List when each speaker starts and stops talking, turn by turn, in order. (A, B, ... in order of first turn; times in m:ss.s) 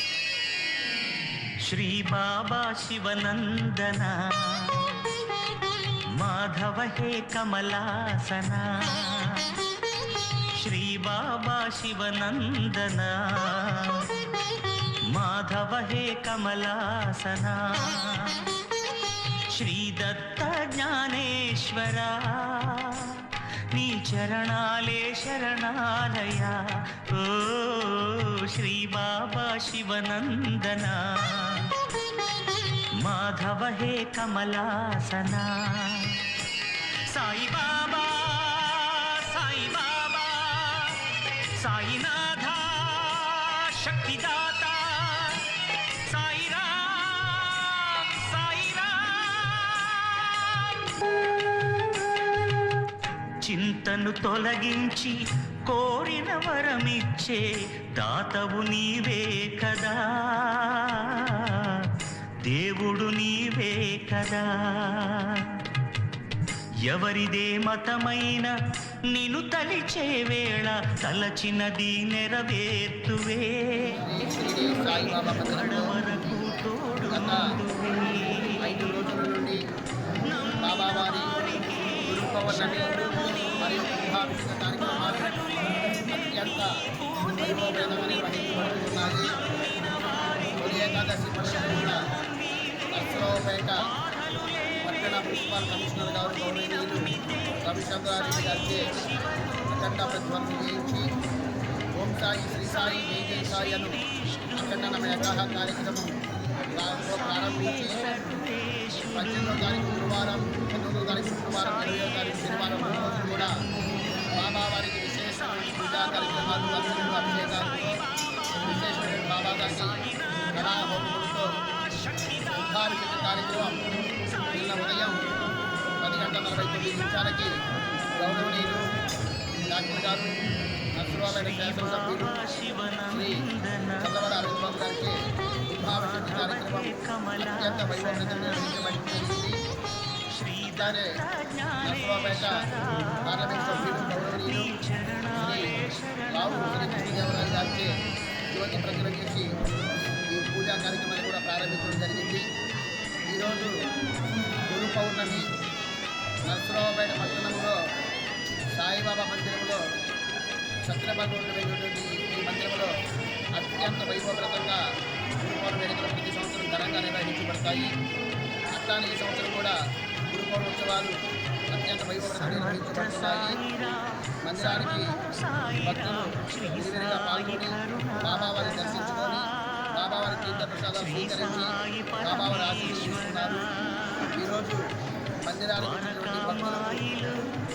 0:01.6-0:05.1 A
0:06.1-0:09.6 A
0:10.5-0:14.1 A
0:15.0-0:18.5 A
0:19.5-0:31.8 A
0:32.9-0:36.2 A
0:37.0-0:50.8 A
0:53.4-1:01.9 A
1:02.4-1:05.6 A
1:06.9-1:08.5 A
1:09.1-1:14.0 A
1:13.9-1:15.9 B
1:14.7-1:18.9 A
1:17.1-1:17.5 B
1:18.6-1:19.6 B
1:20.2-1:41.0 A
1:20.6-1:21.5 B
1:22.0-1:29.3 B
1:30.6-1:32.0 B
1:32.9-1:33.8 B
1:34.8-1:37.1 B
1:37.6-1:38.9 B
1:39.7-1:41.1 B
1:42.0-1:43.9 B
1:42.6-1:45.8 A
1:44.5-1:46.1 B
1:46.8-1:48.0 B
1:47.0-1:50.1 A
1:49.1-1:53.5 B
1:51.5-1:54.2 A
1:54.3-1:58.0 B
1:55.3-2:03.6 A
1:58.6-2:00.0 B
2:00.5-2:01.5 B
2:02.5-2:03.8 B
2:04.2-2:05.4 A
2:04.5-2:05.3 B
2:06.0-2:07.5 B
2:06.2-2:07.5 A
2:08.2-2:08.8 B
2:09.7-2:10.4 B
2:11.0-2:12.3 B
2:11.2-2:14.1 A
2:13.1-2:13.4 B
2:14.0-2:15.2 B
2:15.7-2:19.6 B
2:15.8-2:18.8 A
2:20.3-2:27.9 A
2:20.6-2:21.1 B
2:21.8-2:22.6 B
2:23.2-2:24.7 B
2:25.3-2:25.7 B
2:26.3-2:27.9 B
2:28.5-2:29.5 B
2:30.3-2:32.4 B
2:33.3-2:33.7 B
2:34.7-2:35.4 B
2:36.5-2:37.8 B
2:38.8-2:39.8 B
2:40.9-2:42.9 B
2:43.6-2:44.8 B
2:45.4-2:47.9 B
2:48.7-2:49.8 B
2:50.3-2:51.2 B
2:51.7-2:53.6 B
2:52.2-3:04.4 A
2:54.4-2:55.1 B
2:55.8-3:03.7 B
3:04.4-3:04.8 B
3:05.4-3:07.4 B
3:05.8-3:07.5 A